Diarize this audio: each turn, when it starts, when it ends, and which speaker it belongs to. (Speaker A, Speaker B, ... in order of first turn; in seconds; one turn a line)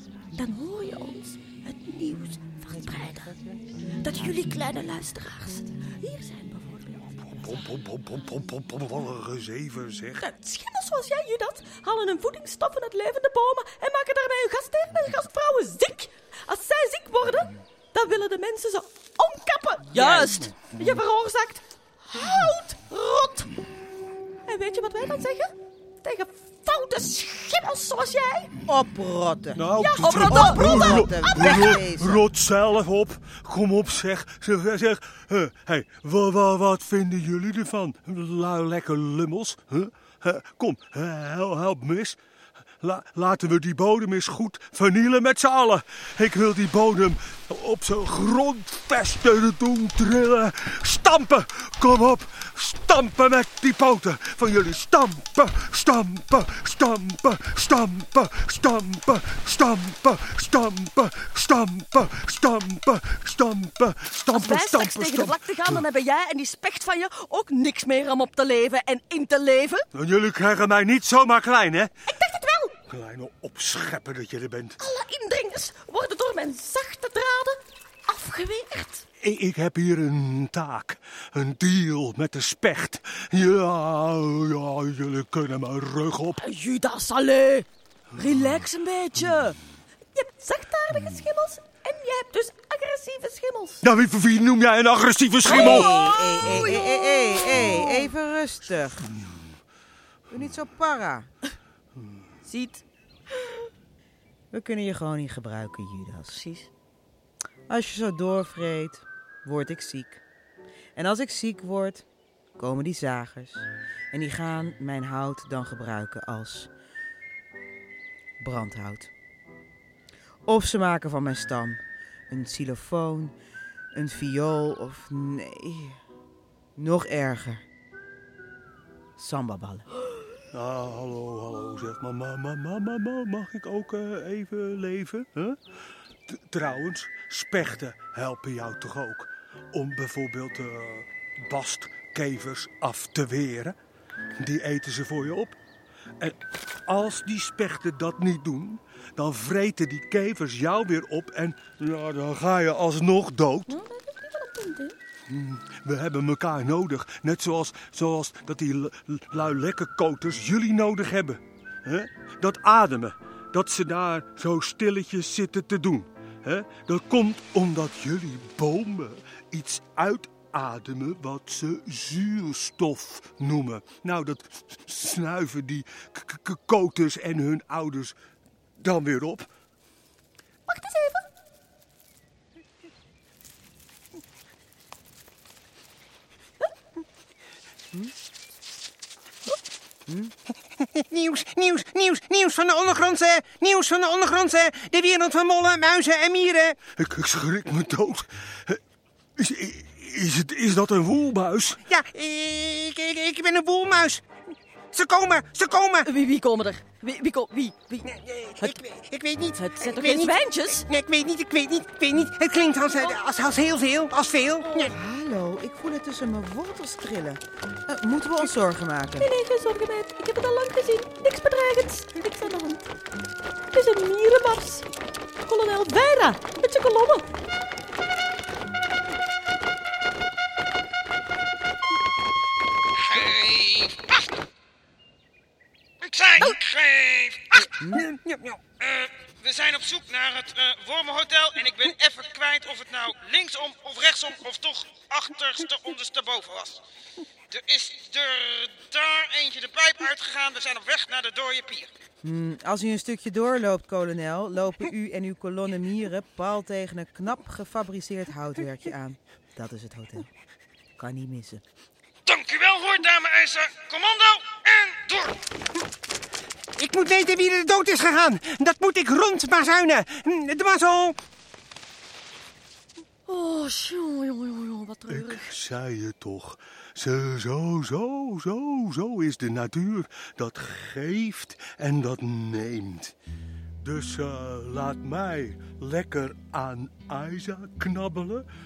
Speaker A: 0.3-7.2
Speaker B: 7.3-10.2
Speaker A: 10.2-23.5
Speaker C: 19.9-20.5
Speaker A: 24.4-28.5
Speaker C: 28.7-32.2
Speaker B: 29.6-42.2
Speaker A: 29.8-31.8
Speaker B: 42.8-65.8
Speaker A: 64.3-69.8
Speaker B: 69.9-71.9
Speaker A: 72.1-72.8
Speaker B: 72.9-74.8
Speaker A: 74.8-79.0
Speaker B: 79.2-86.4
Speaker A: 86.3-89.6
Speaker A: 90.1-93.8
Speaker B: 93.8-95.9
Speaker A: 95.4-98.1
Speaker C: 95.5-99.1
Speaker B: 97.5-97.8
Speaker B: 99.0-99.5
Speaker C: 100.3-101.3
Speaker A: 102.4-102.8
Speaker C: 104.5-106.4
Speaker A: 106.3-106.7
Speaker C: 107.7-110.2
Speaker C: 111.0-112.0
Speaker C: 112.6-116.7
Speaker C: 118.4-119.1
Speaker C: 120.5-123.3
Speaker C: 123.9-126.0
Speaker C: 126.8-127.6
Speaker C: 129.2-129.9
Speaker B: 130.5-135.6
Speaker B: 136.3-143.8
Speaker B: 144.3-145.6
Speaker B: 146.2-153.7
Speaker A: 153.7-154.9
Speaker B: 155.3-178.2
Speaker B: 178.8-179.5
Speaker A: 180.7-181.3
Speaker C: 190.1-190.3
Speaker D: 190.7-196.8
Speaker B: 196.9-198.8
Speaker B: 199.4-201.9
Speaker D: 201.8-204.2
Speaker D: 204.9-206.1
Speaker A: 206.0-208.8
Speaker D: 208.1-214.9
Speaker A: 209.5-210.9
Speaker C: 214.9-219.3
Speaker A: 219.2-222.8
Speaker A: 223.7-224.9
Speaker A: 225.4-227.2
Speaker E: 233.1-234.1
Speaker D: 233.1-233.9
Speaker D: 236.0-239.0
Speaker E: 236.0-237.0
Speaker C: 237.7-238.1
Speaker E: 238.8-246.8
Speaker D: 241.7-242.1
Speaker E: 247.5-251.9
Speaker C: 252.2-260.3
Speaker C: 261.0-261.6
Speaker D: 262.3-265.4
Speaker E: 262.6-263.8
Speaker D: 266.8-271.2
Speaker A: 273.3-275.5
Speaker B: 275.1-283.1
Speaker B: 283.8-288.4